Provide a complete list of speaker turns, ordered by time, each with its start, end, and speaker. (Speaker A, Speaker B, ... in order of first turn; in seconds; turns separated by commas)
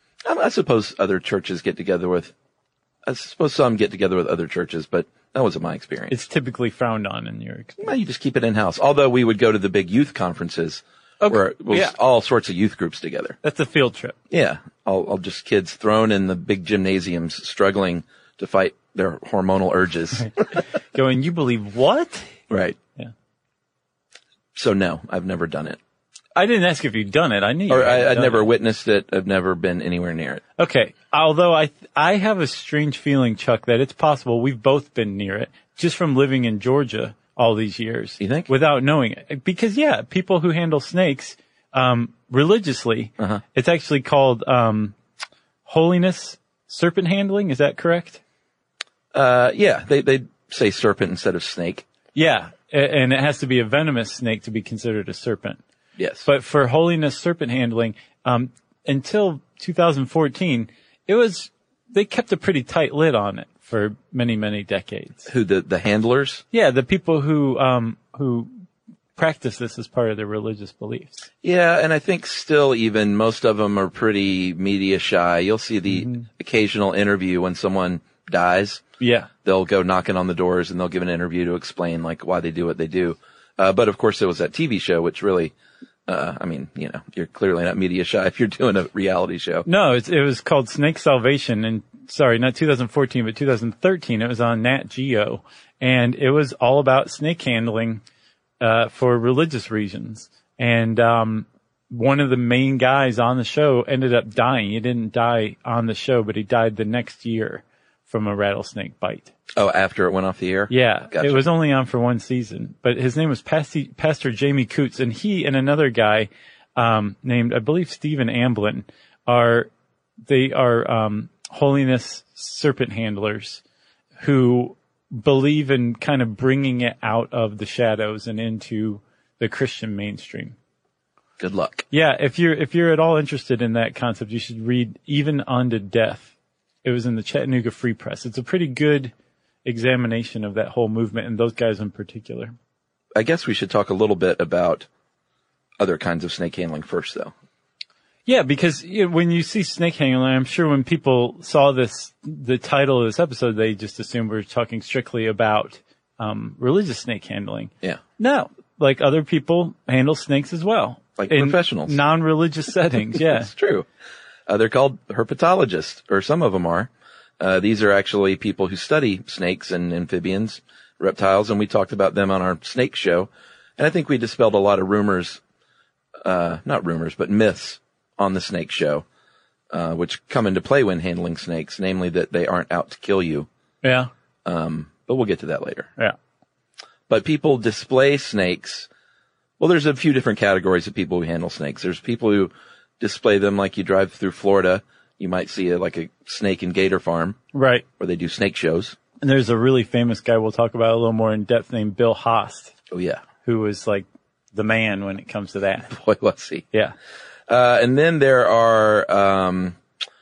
Speaker A: 0.2-2.3, Speaker A: 3.0-6.1, Speaker B: 6.1-7.9, Speaker A: 7.8-13.3, Speaker B: 11.2-11.9, Speaker B: 13.4-14.2, Speaker A: 14.3-20.3, Speaker B: 20.9-22.4, Speaker A: 22.5-22.8, Speaker A: 24.5-25.8, Speaker B: 26.4-28.5, Speaker A: 27.7-30.4, Speaker B: 30.6-45.0, Speaker A: 38.2-38.5, Speaker B: 45.6-48.2, Speaker A: 49.1-51.8, Speaker B: 52.1-55.6, Speaker A: 56.0-56.2, Speaker B: 56.2-65.3, Speaker A: 65.3-66.4, Speaker B: 66.5-68.5, Speaker B: 69.2-71.3, Speaker A: 71.4-78.8, Speaker B: 75.9-76.2, Speaker B: 79.0-79.3, Speaker A: 79.4-85.5, Speaker A: 86.1-89.7, Speaker B: 89.7-98.0, Speaker B: 98.6-109.3, Speaker A: 109.5-111.5, Speaker B: 110.7-119.7, Speaker B: 120.3-123.6, Speaker B: 124.2-130.5, Speaker A: 131.4-131.8, Speaker B: 131.9-136.3, Speaker B: 136.8-139.1, Speaker B: 139.6-142.5, Speaker A: 143.2-144.9, Speaker A: 145.8-147.3, Speaker B: 148.2-163.5, Speaker A: 161.2-162.0, Speaker A: 163.1-163.9, Speaker A: 164.5-175.4, Speaker A: 176.2-179.0, Speaker A: 179.7-183.5, Speaker B: 183.8-184.1, Speaker A: 184.4-185.9, Speaker A: 187.1-188.9, Speaker A: 189.6-197.4, Speaker B: 197.5-197.8, Speaker A: 198.0-199.0, Speaker B: 199.2-202.7, Speaker A: 202.9-203.2, Speaker B: 203.4-205.9, Speaker A: 205.9-206.6, Speaker A: 207.5-209.8